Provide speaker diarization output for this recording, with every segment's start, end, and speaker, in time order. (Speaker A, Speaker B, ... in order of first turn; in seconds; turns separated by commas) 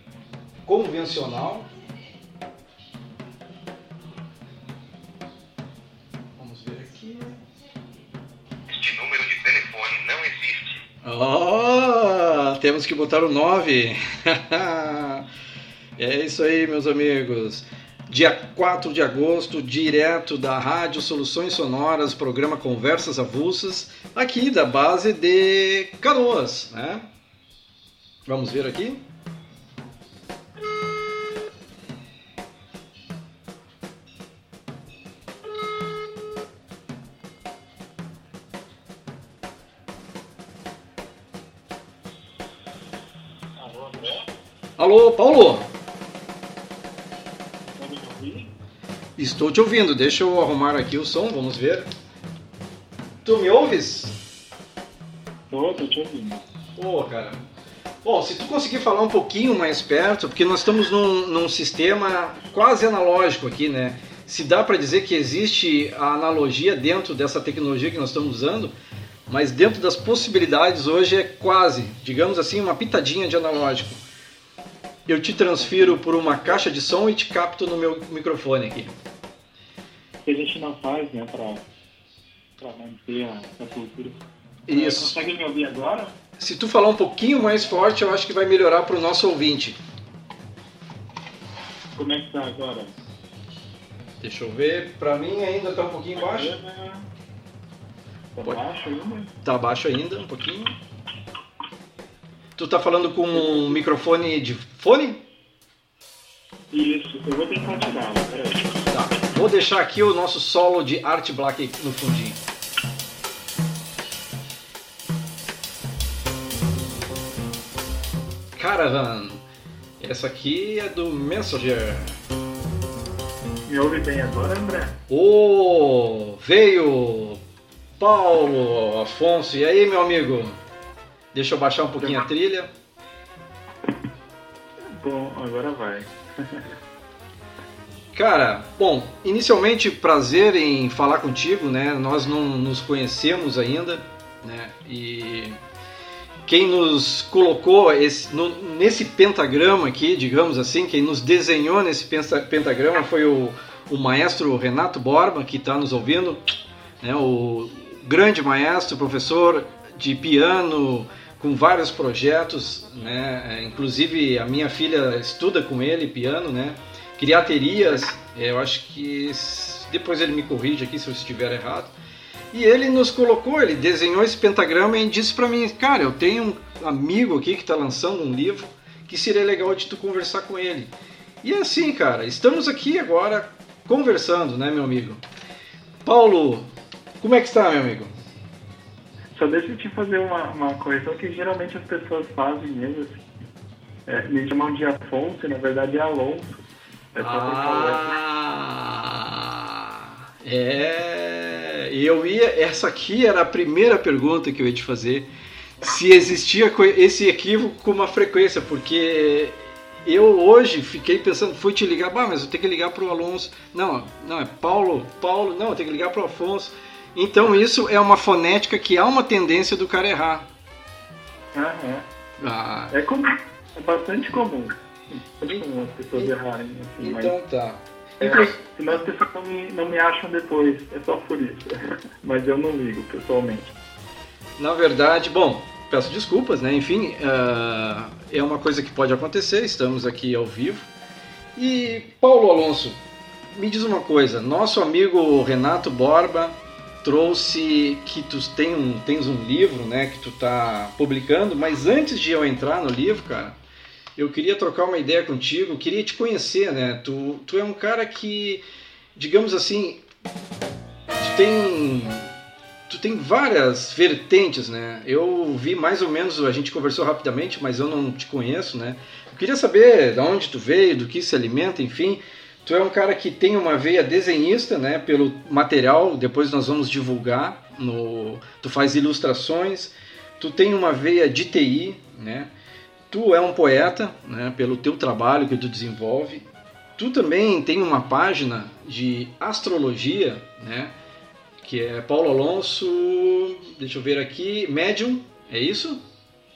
Speaker A: 0.6-1.7, Speaker A: 6.4-7.4, Speaker B: 8.7-10.8, Speaker A: 11.0-15.3, Speaker A: 16.0-27.1, Speaker A: 28.2-29.1, Speaker C: 43.6-44.2, Speaker A: 44.8-45.7, Speaker C: 47.7-48.5, Speaker A: 49.2-51.9, Speaker A: 53.2-54.2, Speaker C: 55.5-56.4, Speaker A: 56.8-57.4, Speaker A: 58.0-68.8, Speaker A: 69.3-74.0, Speaker A: 75.1-78.9, Speaker C: 75.6-76.6, Speaker C: 80.2-81.6, Speaker C: 82.6-84.2, Speaker A: 84.7-85.2, Speaker C: 84.7-86.1, Speaker A: 86.4-89.8, Speaker C: 91.9-92.9, Speaker A: 94.2-96.5, Speaker C: 96.2-97.0, Speaker C: 98.3-99.3, Speaker A: 99.4-100.8, Speaker A: 102.6-105.2, Speaker C: 103.4-103.7, Speaker C: 106.7-108.9, Speaker A: 108.9-112.4, Speaker A: 118.5-119.4, Speaker A: 120.0-122.2, Speaker C: 123.7-125.0, Speaker A: 125.1-127.4, Speaker A: 128.0-130.6, Speaker A: 131.3-132.7, Speaker C: 134.9-136.6, Speaker A: 138.1-145.6, Speaker A: 146.4-156.4, Speaker A: 157.0-171.9, Speaker A: 172.5-180.9, Speaker A: 181.4-185.2, Speaker A: 186.1-186.7, Speaker A: 187.2-188.1, Speaker C: 189.3-193.2, Speaker C: 194.1-196.6, Speaker C: 197.1-198.2, Speaker A: 197.2-205.3, Speaker A: 205.8-220.5, Speaker C: 221.5-222.1, Speaker A: 222.4-222.9, Speaker C: 222.9-224.8, Speaker C: 225.4-227.3, Speaker A: 227.0-228.6, Speaker C: 228.2-233.8, Speaker A: 234.6-240.9, Speaker A: 241.6-243.0, Speaker A: 243.6-253.6, Speaker A: 254.2-258.6, Speaker A: 259.2-260.0, Speaker A: 261.2-262.3, Speaker A: 262.9-282.5, Speaker A: 283.1-290.9, Speaker A: 291.6-296.0